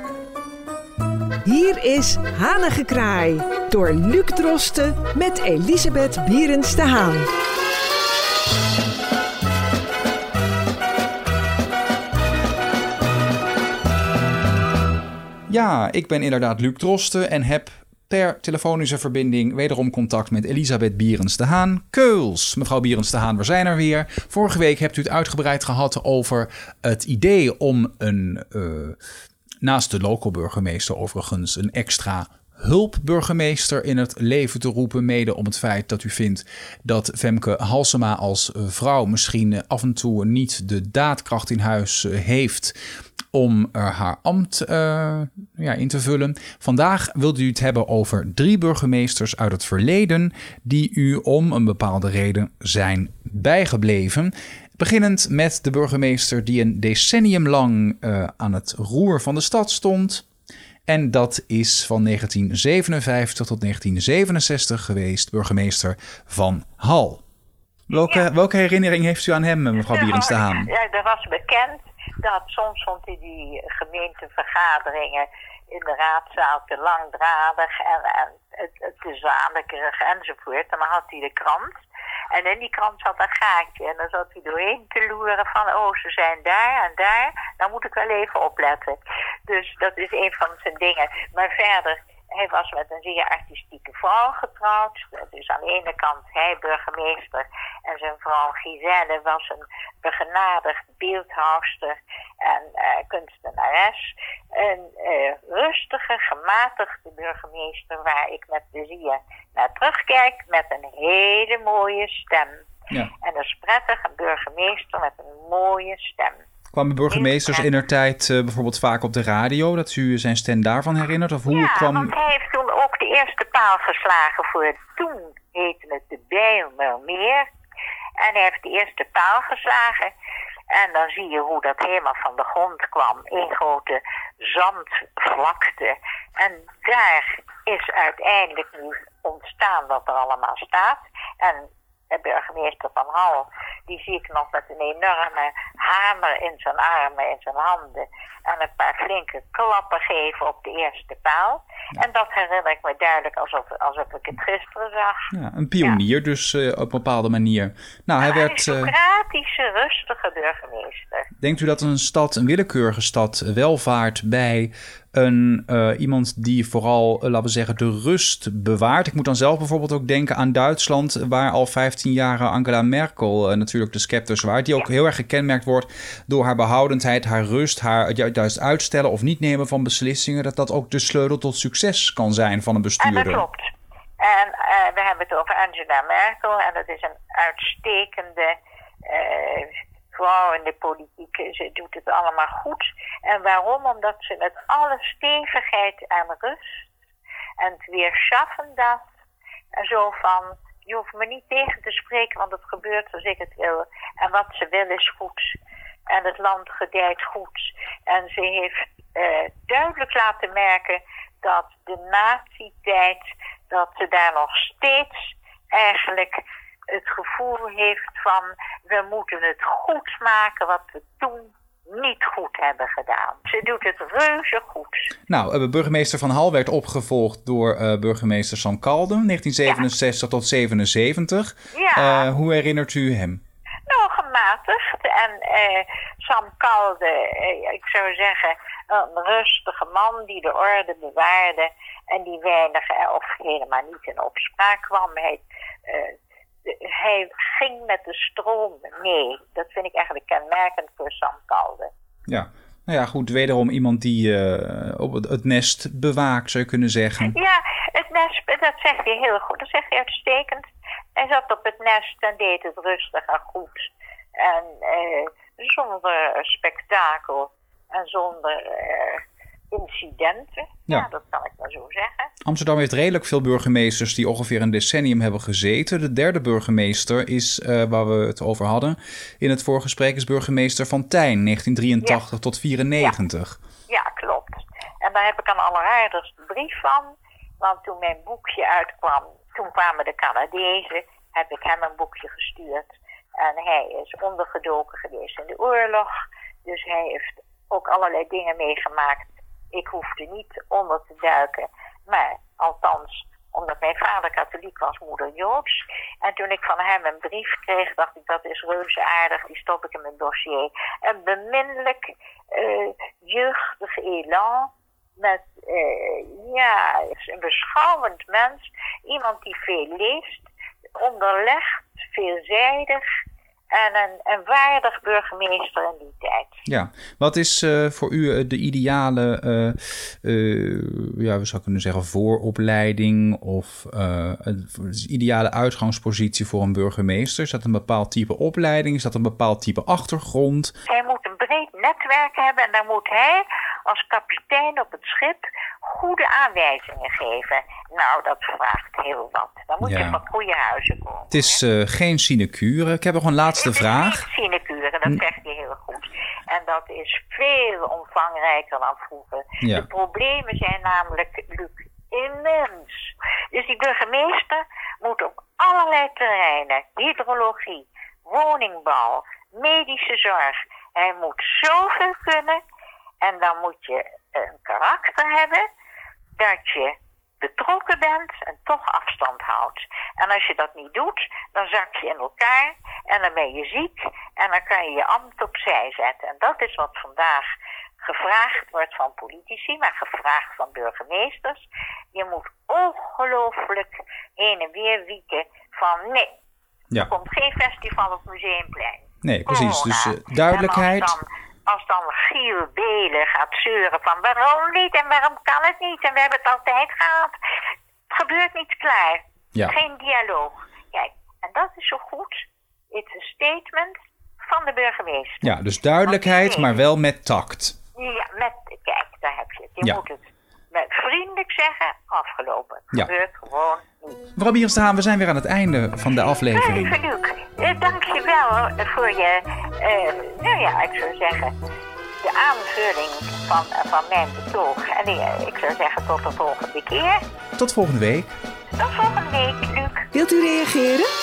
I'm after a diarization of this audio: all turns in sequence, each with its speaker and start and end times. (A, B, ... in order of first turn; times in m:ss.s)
0:01.4-0:07.3 A
0:15.5-0:29.0 B
0:29.6-0:42.8 B
0:43.3-1:00.2 B
1:00.9-1:07.2 B
1:07.9-1:10.7 B
1:07.9-1:08.3 C
1:09.8-1:56.5 C
1:56.7-2:02.1 B
1:57.1-1:57.7 C
2:01.5-2:07.5 C
2:08.2-2:10.1 C
2:10.7-2:35.3 C
2:35.3-2:38.9 B
2:38.2-2:41.3 C
2:41.4-3:03.4 B
3:03.0-3:03.7 C
3:04.2-3:16.9 C
3:17.6-3:19.1 C
3:19.8-3:25.6 C
3:26.1-3:45.1 C
3:45.3-3:53.4 B
3:51.7-3:52.3 C
3:53.9-4:11.9 C
4:12.3-4:17.4 B
4:17.2-4:32.3 C
4:32.4-4:43.6 B
4:43.9-4:56.1 C
4:56.7-5:23.0 C
5:23.7-5:26.6 C
5:26.7-5:40.7 B
5:40.9-5:51.6 C
5:49.8-5:50.2 B
5:51.3-5:54.2 B
5:53.5-6:12.6 C
5:59.6-5:59.9 B
6:13.2-6:15.7 C
6:16.4-6:27.5 C
6:28.0-6:36.4 C
6:37.0-6:47.3 C
6:39.2-6:41.2 B
6:48.1-6:55.5 C
6:55.4-6:57.8 B
6:56.1-6:56.8 C
6:58.0-7:04.3 C
7:04.4-7:07.0 B
7:06.5-7:11.5 C
7:12.2-7:17.2 C
7:17.6-7:18.3 B
7:18.8-7:20.1 C
7:20.1-7:21.1 A